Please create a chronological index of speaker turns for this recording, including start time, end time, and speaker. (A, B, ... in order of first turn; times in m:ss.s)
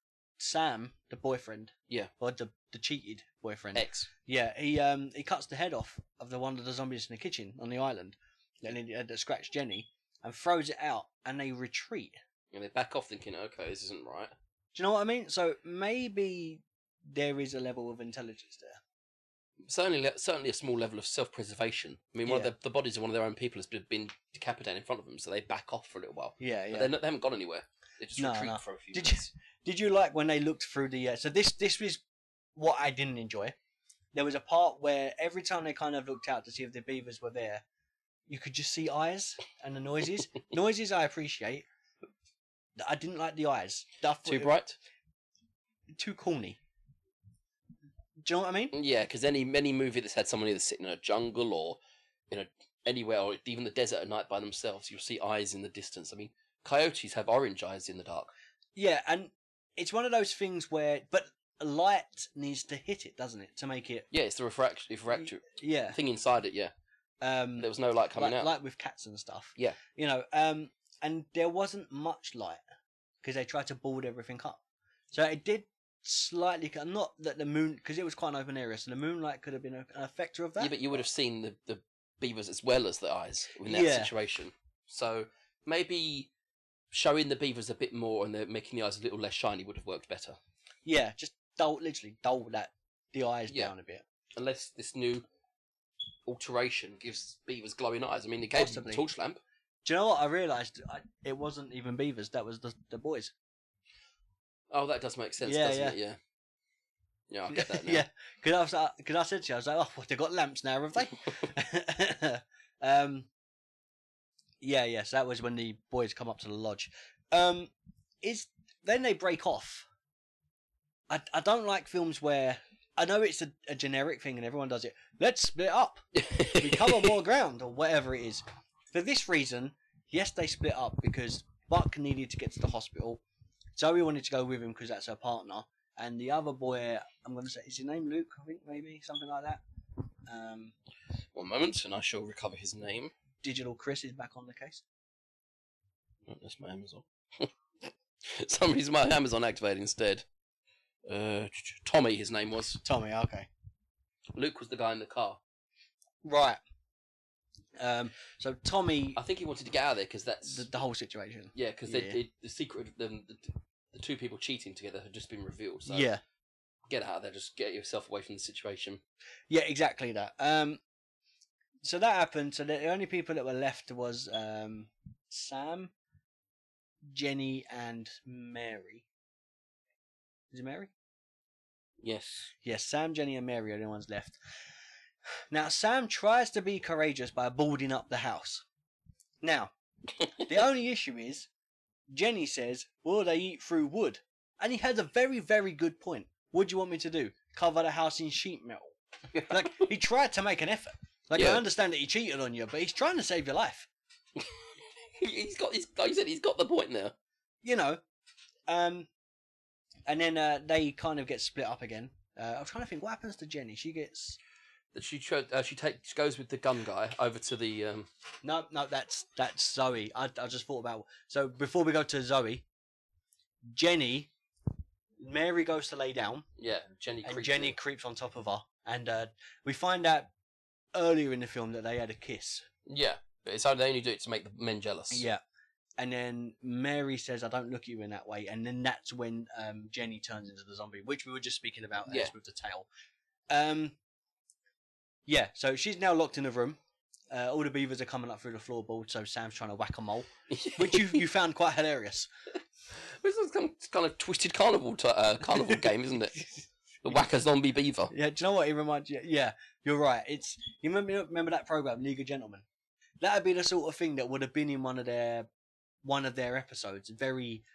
0:00.4-0:12.2 A
0:03.7-0:04.1 B
0:12.5-0:14.3 B
0:14.7-0:18.8 A
0:19.6-0:29.3 B
0:22.2-0:22.5 A
0:26.4-0:26.9 A
0:28.2-0:32.0 A
0:32.6-0:33.5 A
0:34.1-0:37.6 A
0:38.3-0:41.6 A
0:42.8-0:44.5 A
0:44.2-0:44.8 B
0:45.9-0:46.6 A
0:48.2-0:48.7 A
0:48.7-0:51.8 B
0:52.3-0:58.3 B
0:58.8-1:04.1 A
1:04.1-1:06.7 B
1:05.1-1:06.0 A
1:07.2-1:12.6 A
1:07.6-1:08.5 B
1:13.2-1:14.6 A
1:15.1-1:20.9 A
1:20.6-1:26.3 B
1:23.7-1:24.1 A
1:26.9-1:30.4 B
1:30.8-1:34.0 A
1:33.5-1:33.7 B
1:34.3-1:35.2 B
1:36.2-1:39.4 B
1:38.5-1:39.0 A
1:39.8-1:43.3 A
1:44.7-1:46.2 B
1:45.4-1:46.0 A
1:47.3-1:48.0 B
1:47.5-1:53.3 A
1:54.6-1:59.8 A
2:01.1-2:13.2 A
2:06.1-2:07.2 B
2:13.8-2:19.6 A
2:20.3-2:20.7 A
2:21.3-2:23.1 B
2:23.4-2:24.8 A
2:26.3-2:27.5 B
2:28.2-2:30.2 B
2:31.1-2:32.8 B
2:32.8-2:33.5 A
2:34.3-2:35.4 B
2:36.2-2:36.6 A
2:37.8-2:39.2 A
2:39.2-2:40.7 B
2:40.4-2:42.2 A
2:41.5-2:46.1 B
2:45.9-2:46.2 A
2:46.9-2:49.0 B
2:49.5-2:50.8 A
2:51.8-2:55.9 A
2:57.1-2:59.0 A
3:00.5-3:00.9 A
3:02.0-3:02.5 B
3:02.6-3:04.4 A
3:05.5-3:08.6 A
3:09.4-3:09.7 A
3:10.4-3:11.5 A
3:12.1-3:23.9 A
3:21.3-3:21.6 B
3:24.4-3:27.1 B
3:27.6-3:28.0 A
3:28.7-3:29.1 A
3:30.1-3:34.4 A
3:34.9-3:38.1 B
3:38.4-3:42.6 A
3:43.7-3:44.3 A
3:45.2-3:46.5 A
3:46.6-3:47.8 B
3:47.2-3:50.3 A
3:50.9-3:52.6 A
3:52.8-3:55.3 B
3:55.1-3:55.4 A
3:56.0-4:02.9 A
4:02.0-4:02.3 B
4:03.5-4:04.0 A
4:05.2-4:06.8 A
4:07.3-4:12.3 A
4:10.5-4:11.2 B
4:12.9-4:16.4 B
4:17.0-4:18.1 B
4:18.1-4:22.6 A
4:23.2-4:25.5 A
4:26.0-4:27.6 A